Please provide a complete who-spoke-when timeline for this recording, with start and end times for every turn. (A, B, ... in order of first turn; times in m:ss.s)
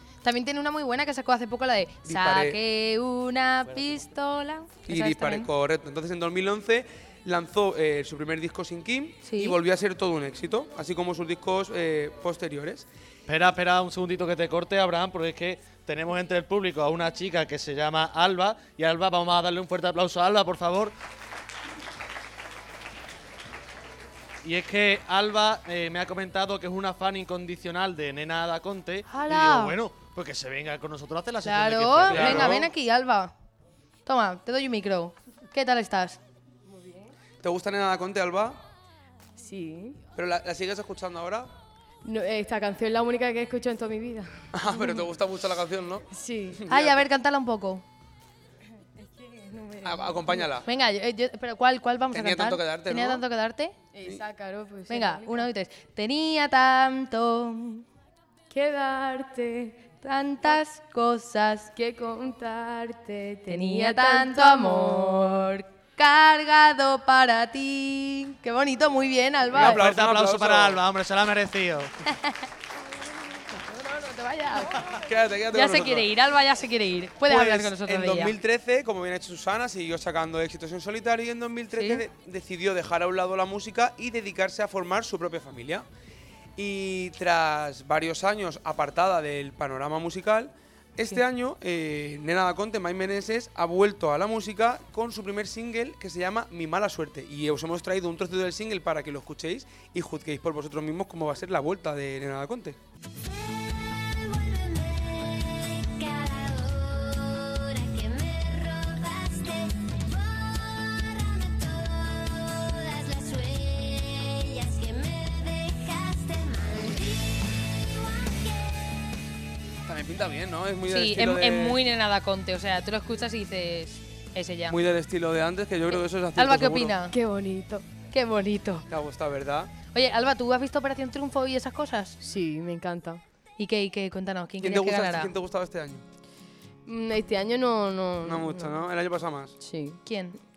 0:00.2-0:05.5 A
0:02.1-0:02.6 B
0:04.9-0:12.9 B
0:09.2-0:09.6 A
0:13.3-0:20.9 C
0:24.4-0:32.6 C
0:29.1-0:29.8 A
0:31.4-0:33.3 A
0:32.1-0:32.7 B
0:34.1-0:36.2 A
0:37.4-0:38.6 B
0:39.4-0:40.0 D
0:40.2-0:41.5 B
0:42.0-0:45.1 D
0:44.5-0:47.0 B
0:46.1-0:46.6 D
0:46.7-0:47.8 A
0:49.0-0:50.5 D
0:49.8-0:50.7 B
0:50.6-0:53.8 A
0:52.1-0:53.2 B
0:53.9-0:55.5 D
0:54.9-0:57.8 A
0:58.5-0:59.9 D
1:00.0-1:01.7 A
1:01.7-1:05.5 D
1:03.5-1:09.8 A
1:09.5-1:10.8 B
1:09.5-1:11.9 C
1:13.5-1:14.9 D
1:14.9-1:16.1 B
1:15.5-1:18.4 A
1:17.3-1:25.8 B
1:21.7-1:22.0 A
1:26.6-1:42.8 B
1:43.3-1:59.0 E
1:59.9-2:01.8 B
2:00.9-2:04.8 A
2:04.7-2:07.0 B
2:05.9-2:07.1 A
2:07.1-2:08.8 D
2:08.9-2:09.7 B
2:09.9-2:12.2 A
2:12.2-2:13.2 D
2:13.6-2:15.3 A
2:14.6-2:16.0 B
2:16.9-2:18.8 D
2:18.2-2:19.6 B
2:19.6-2:20.0 D
2:20.0-2:20.4 A